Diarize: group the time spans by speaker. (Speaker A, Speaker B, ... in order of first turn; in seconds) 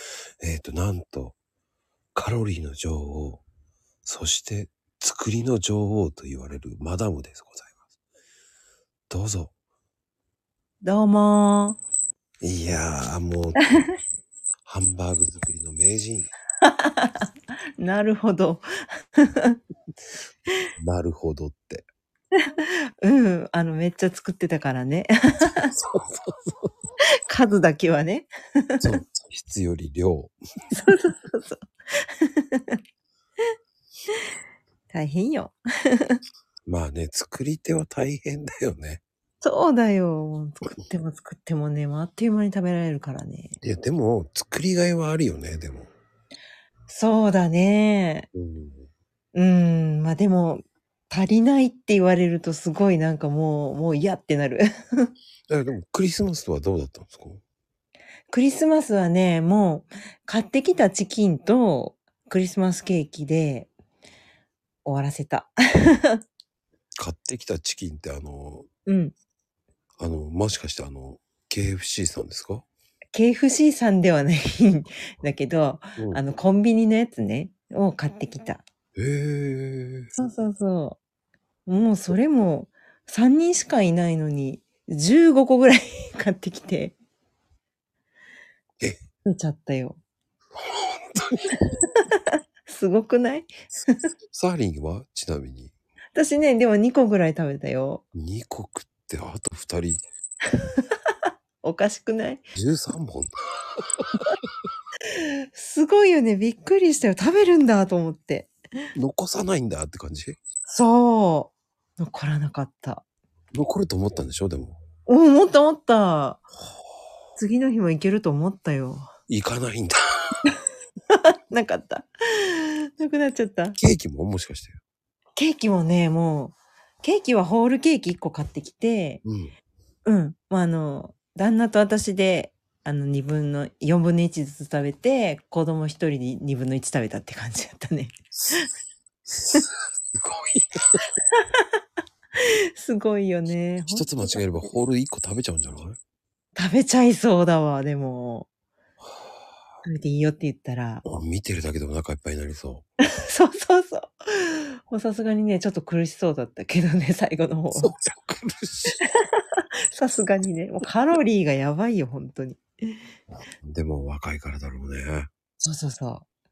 Speaker A: 0.4-1.4, 2.1-3.4, 4.0-7.7, 9.1-9.5, 12.4-13.7, 14.6-16.3, 20.8-21.9, 25.6-26.7, 28.8-30.4, 36.6-39.0, 43.6-45.9, 48.3-48.9, 55.5-57.4, 67.0-68.7, 70.0-72.7, 79.0-80.1, 90.6-91.6, 94.3-95.7, 98.1-100.0, 102.5-103.3, 108.9-110.4, 113.5-114.8, 119.3-120.0, 123.8-124.8, 129.2-129.5, 139.2-140.9, 143.9-146.0, 151.0-152.8, 157.8-159.0, 163.3-165.3
Speaker B: 10.8-11.8, 16.6-19.6, 22.4-25.7, 27.3-28.9, 30.7-32.8, 34.9-36.2, 39.4-43.6, 46.9-48.3, 49.3-55.1, 58.3-63.7, 64.8-66.2, 68.8-69.1, 73.1-78.6, 80.2-81.0, 81.7-86.9, 89.2-90.0, 92.0-94.1, 96.1-98.0, 101.6-102.5, 105.1-108.5, 110.7-113.0, 115.0-116.4, 117.3-119.1, 121.1-123.8, 125.3-129.2, 130.0-138.7, 141.3-141.6, 142.4-144.4, 146.5-148.5, 149.8-151.0, 153.2-157.9, 159.0-162.9, 165.6-166.2